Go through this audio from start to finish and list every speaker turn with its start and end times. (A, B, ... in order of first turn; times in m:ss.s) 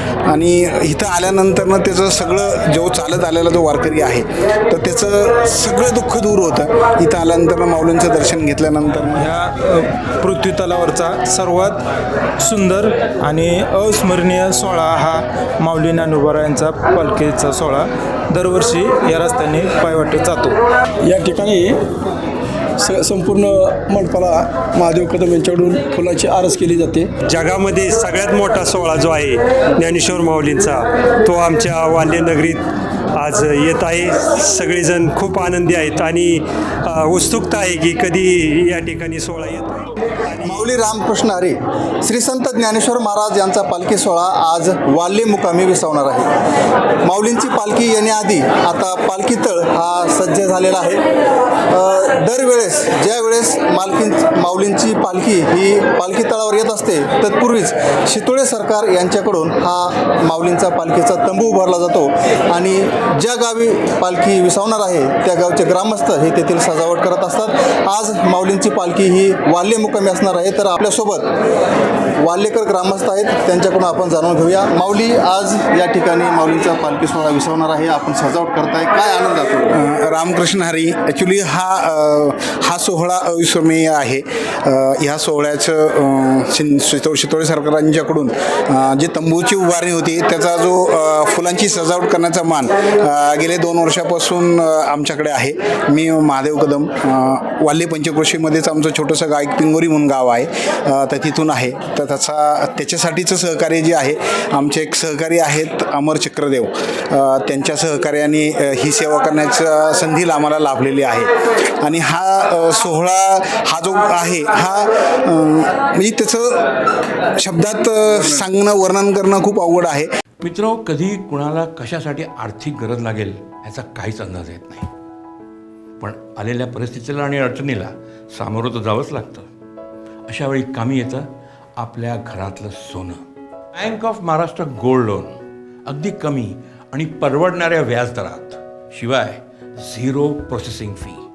0:00.2-0:09.3 A
0:09.1-0:11.8 B
0:12.4-0:20.5 B
0:21.0-0:21.8 C
0:22.8-0:27.1 C
0:27.2-0:32.6 D
0:33.2-0:40.6 D
0:40.4-0:46.3 E
0:47.0-0:51.0 E
0:51.7-1:11.2 E
1:12.2-1:19.7 E
1:19.7-1:56.7 A
1:57.4-2:00.1 A
2:00.4-2:04.9 F
2:06.0-2:09.5 F
2:10.3-2:13.2 F
2:13.8-2:21.2 F